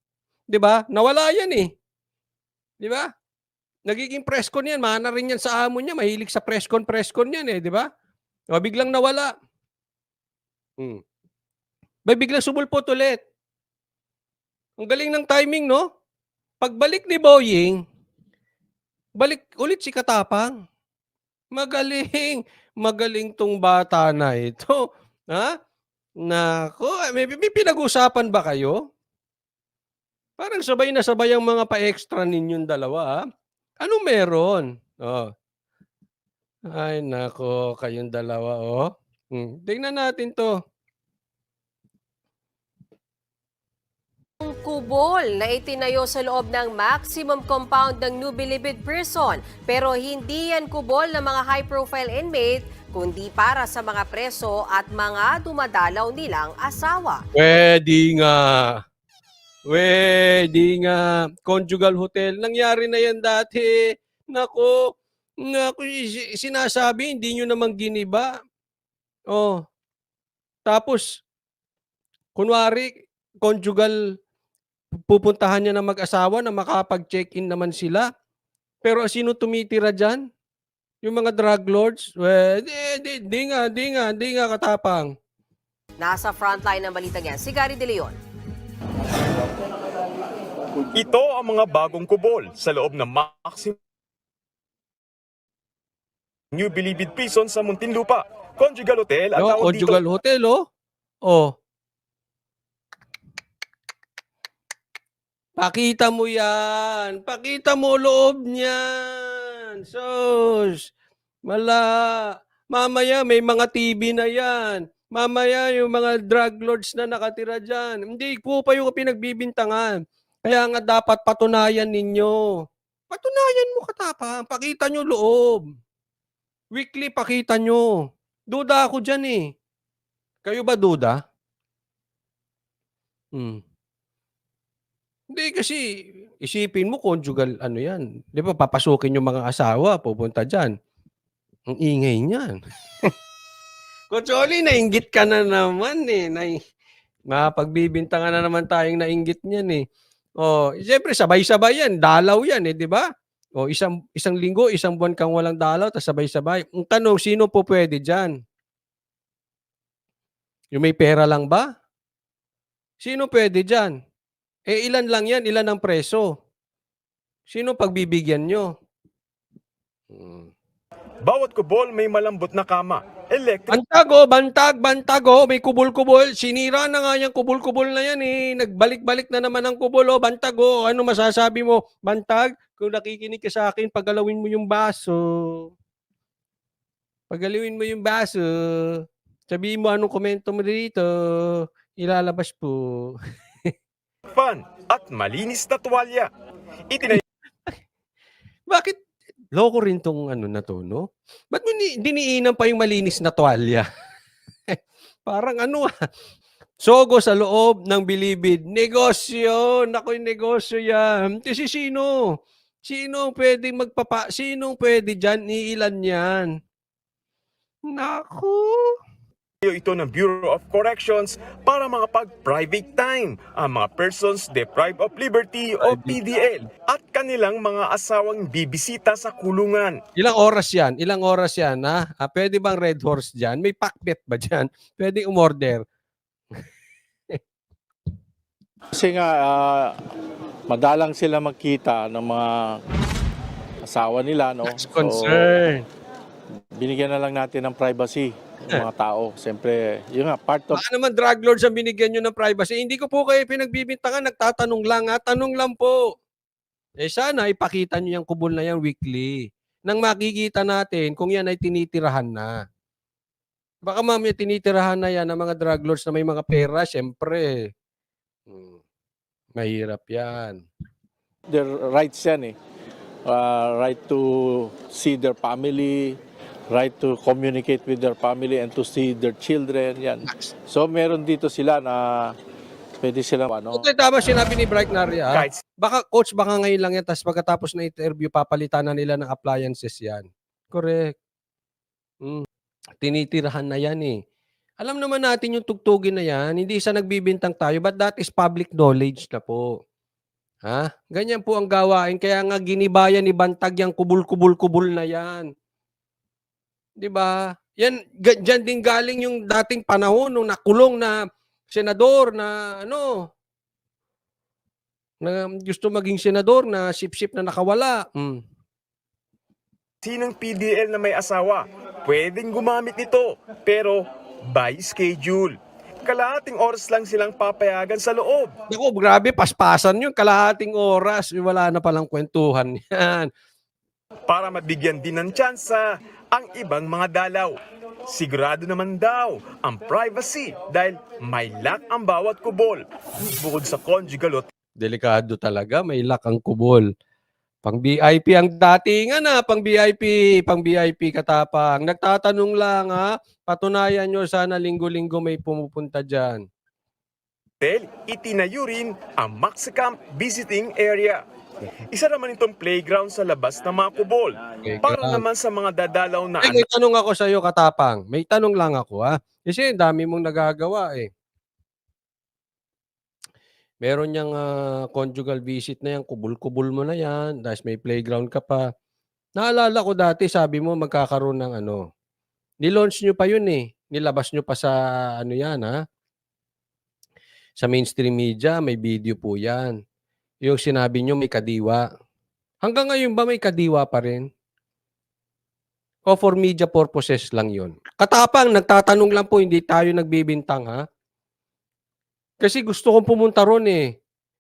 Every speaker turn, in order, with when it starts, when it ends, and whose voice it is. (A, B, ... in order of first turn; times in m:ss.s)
0:00.5-0:01.7 A
0:02.8-0:03.1 A
0:03.9-0:07.9 A
0:08.6-0:09.3 A
0:12.1-0:13.2 A
0:14.8-0:15.8 A
0:16.6-0:17.8 A
0:19.2-0:20.5 A
0:21.6-0:24.8 A
0:26.3-0:28.8 A
0:30.4-0:33.2 A
0:33.8-0:35.3 A
0:36.7-0:40.5 A
0:44.4-0:57.2 B
0:57.4-0:58.8 A
0:59.7-1:03.8 A
1:04.3-1:04.8 A
1:05.4-1:08.3 A
1:10.7-1:11.0 A
1:12.4-1:12.9 A
1:13.4-1:14.0 A
1:15.1-1:18.1 A
1:18.8-1:20.2 A
1:21.0-1:25.1 A
1:26.0-1:28.2 B
1:30.9-1:33.8 C
1:36.5-1:40.0 C
1:39.4-1:40.6 A
1:41.2-1:41.5 A
1:45.6-1:50.8 A
1:51.5-2:02.5 A
2:03.1-2:05.6 A
2:06.8-2:07.9 A
2:08.5-2:09.4 A
2:10.4-2:11.2 A
2:13.3-2:13.6 A
2:15.3-2:15.8 A
2:16.4-2:20.7 A
2:21.7-2:23.1 A
2:24.1-2:26.6 A
2:27.3-2:29.8 A
2:30.4-2:33.0 A
2:33.6-2:38.4 A
2:40.7-2:41.7 A
2:43.0-2:44.0 A
2:44.7-2:46.3 A
2:47.5-2:48.7 A
2:50.1-2:50.5 A
2:51.2-2:53.8 C
2:53.7-3:05.7 A
3:07.3-3:13.7 A
3:14.4-3:16.3 C
3:16.9-3:17.2 C
3:18.7-3:19.0 A
3:19.5-3:23.9 A
3:24.7-3:25.9 A
3:26.8-3:32.1 A
3:32.8-3:36.5 A
3:37.9-3:38.9 A
3:39.6-3:50.0 C
3:45.8-3:46.2 A
3:50.2-3:55.8 A
3:58.9-4:00.0 D
4:00.7-4:02.8 D
4:03.8-4:05.5 D
4:04.7-4:05.8 A
4:06.8-4:10.8 D
4:10.7-4:16.0 A
4:17.0-4:22.6 A
4:23.8-4:27.7 A
4:28.5-4:28.8 A
4:29.6-4:30.6 A
4:31.5-4:32.6 D
4:33.3-4:36.2 D
4:36.7-4:42.4 D
4:40.3-4:40.5 A
4:43.0-4:43.9 D
4:43.7-4:51.1 A
4:45.3-4:45.6 C
4:53.0-4:54.2 A
4:54.8-4:59.7 A
5:00.7-5:05.5 A
5:07.0-5:11.2 A
5:11.7-5:13.3 A
5:15.2-5:18.4 A
5:20.0-5:28.5 C
5:28.7-5:33.3 A
5:34.3-5:37.6 C
5:38.1-5:42.8 C
5:43.4-5:44.5 C
5:44.8-5:46.8 A
5:47.6-5:56.4 A
5:57.6-6:01.2 C
6:01.9-6:06.7 C
6:04.6-6:05.2 A
6:06.4-6:11.1 A
6:13.8-6:18.7 A
6:19.4-6:21.8 A
6:22.6-6:25.8 A
6:27.6-6:29.7 A
6:30.4-6:31.8 A
6:32.6-6:34.3 A
6:36.1-6:40.8 A
6:42.4-6:43.8 A